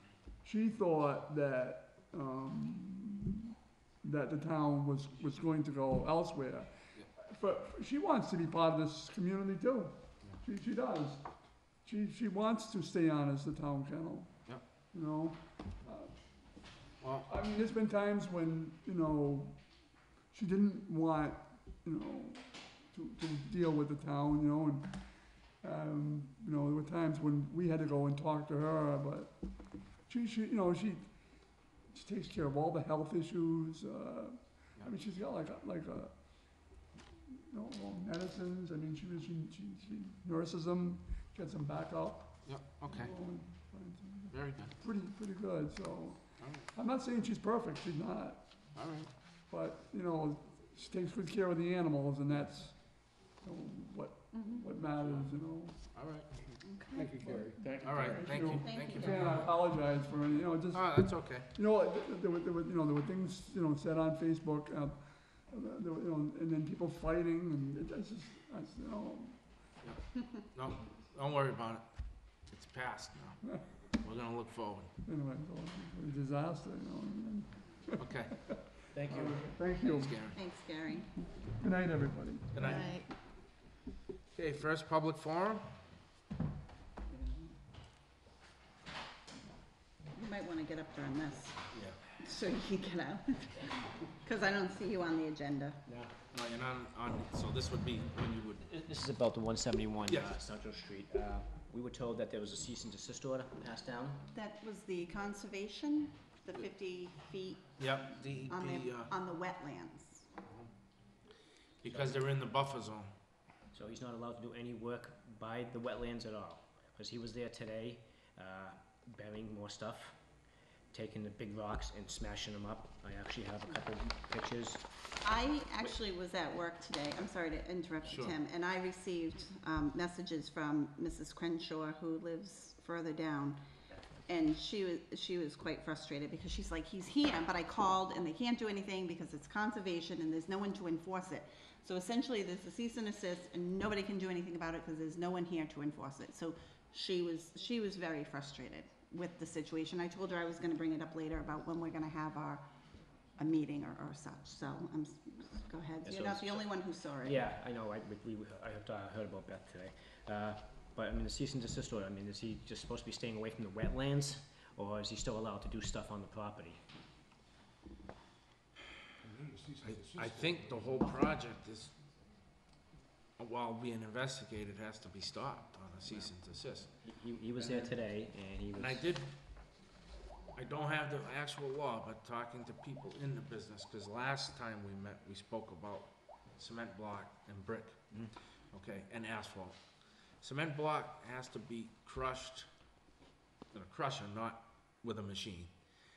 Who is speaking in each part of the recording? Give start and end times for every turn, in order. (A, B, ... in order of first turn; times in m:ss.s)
0:00.4-0:03.5 A
0:04.0-0:11.2 A
0:11.8-0:14.4 A
0:14.9-0:16.2 A
0:17.0-0:17.3 B
0:17.2-0:19.6 A
0:20.3-0:25.0 A
0:25.6-0:29.4 A
0:30.0-0:31.1 A
0:31.9-0:36.5 A
0:37.3-0:48.5 A
0:42.5-0:43.1 B
0:44.3-0:44.8 B
0:46.4-0:46.7 B
0:48.8-0:49.1 B
0:49.5-0:52.8 A
0:53.4-0:55.8 A
0:54.3-0:54.7 C
0:55.9-0:56.5 B
0:56.6-0:57.1 C
0:56.9-0:58.3 D
0:57.2-1:09.4 A
0:57.8-0:59.3 B
0:58.6-0:59.4 C
1:00.7-1:01.5 B
1:10.5-1:11.8 B
1:12.5-1:13.4 B
1:14.0-1:14.9 B
1:15.0-1:20.2 A
1:18.0-1:18.5 B
1:19.0-1:19.2 E
1:19.1-1:20.4 B
1:20.3-1:21.1 C
1:21.4-1:22.9 A
1:22.5-1:22.9 B
1:22.6-1:23.1 C
1:24.3-1:25.7 B
1:27.1-1:27.5 C
1:30.1-1:35.8 C
1:31.7-1:32.0 B
1:35.9-1:36.1 E
1:36.3-1:38.6 B
1:38.6-1:44.2 E
1:40.0-1:40.4 B
1:44.3-1:47.7 C
1:47.8-1:49.1 B
1:48.5-1:50.3 C
1:51.8-1:53.1 B
1:51.9-1:52.1 E
1:53.7-2:00.2 E
2:00.9-2:04.8 E
2:05.2-2:13.6 C
2:08.1-2:08.4 B
2:14.3-2:32.7 C
2:33.4-2:37.5 C
2:36.0-2:46.8 E
2:49.2-2:51.1 D
2:49.8-2:51.9 B
2:53.4-2:56.9 B
2:57.0-2:59.0 E
2:58.8-2:59.3 B
3:00.6-3:08.0 B
3:08.7-3:09.8 B
3:10.4-3:12.7 B
3:13.7-3:15.7 B